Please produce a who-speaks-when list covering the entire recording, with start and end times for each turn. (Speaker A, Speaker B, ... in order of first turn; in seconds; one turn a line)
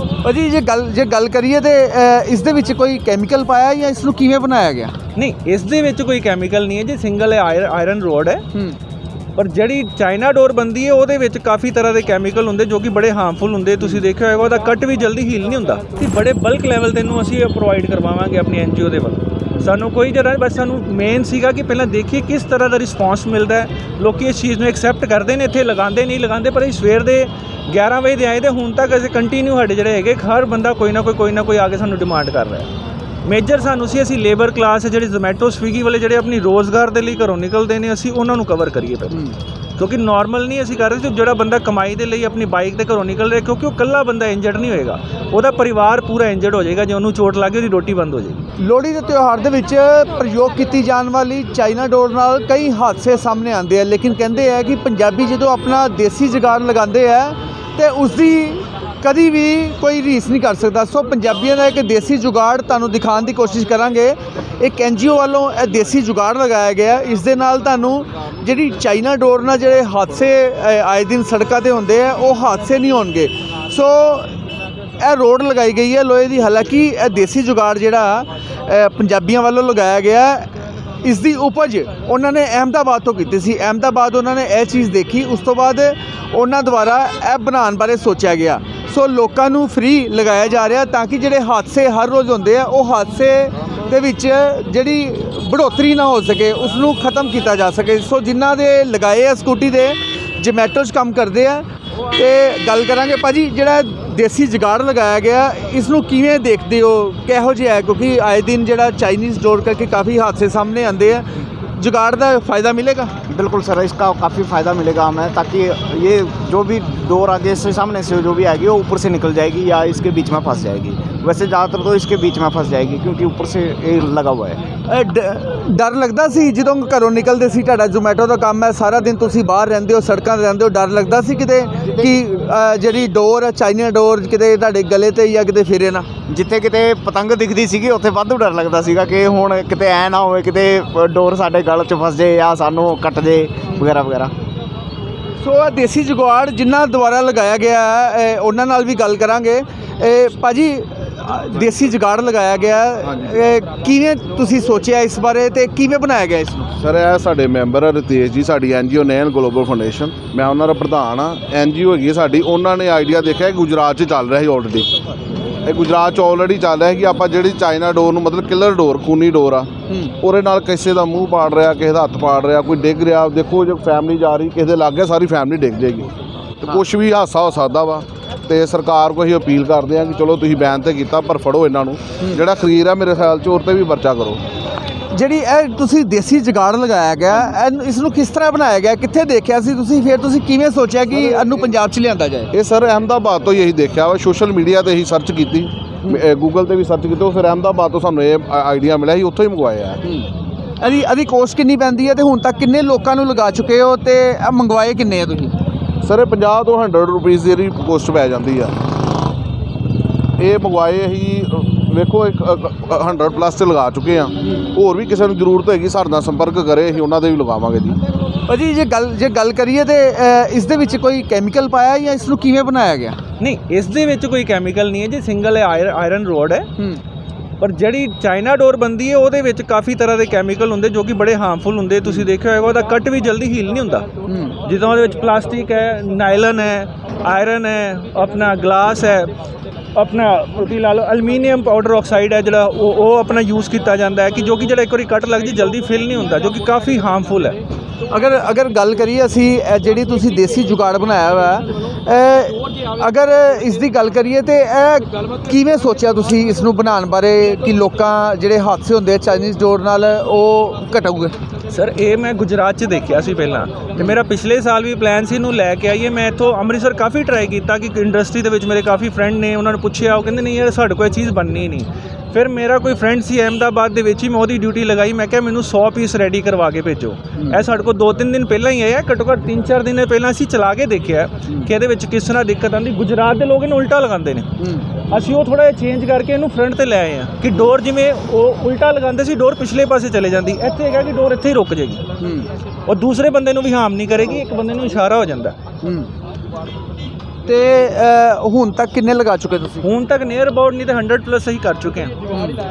Speaker A: 0.2-4.9
Speaker B: 5.1-8.4
Speaker B: 9.3-32.7
Speaker B: 33.2-48.5
Speaker A: 48.6-74.3
Speaker A: 75.0-113.1
Speaker C: 113.3-124.6
Speaker A: 124.8-136.1
Speaker C: 136.3-144.3
Speaker A: 145.4-156.7
Speaker D: 153.1-153.4
Speaker D: 156.8-164.9
Speaker D: 165.6-184.4
Speaker A: 185.1-192.5
Speaker D: 192.5-200.1
Speaker A: 200.8-205.5
Speaker D: 206.0-208.8
Speaker D: 210.4-218.0
Speaker A: 218.4-223.2
Speaker B: 223.4-226.7
Speaker B: 227.6-234.1
Speaker A: 234.3-234.5
Speaker B: 234.6-239.3
Speaker B: 239.9-247.6
Speaker A: 248.1-261.4
Speaker B: 261.7-292.0
Speaker A: 292.2-292.5
Speaker B: 292.9-295.6
Speaker A: 295.8-296.1
Speaker A: 297.4-299.8
Speaker B: 299.8-302.1
Speaker A: 302.3-302.6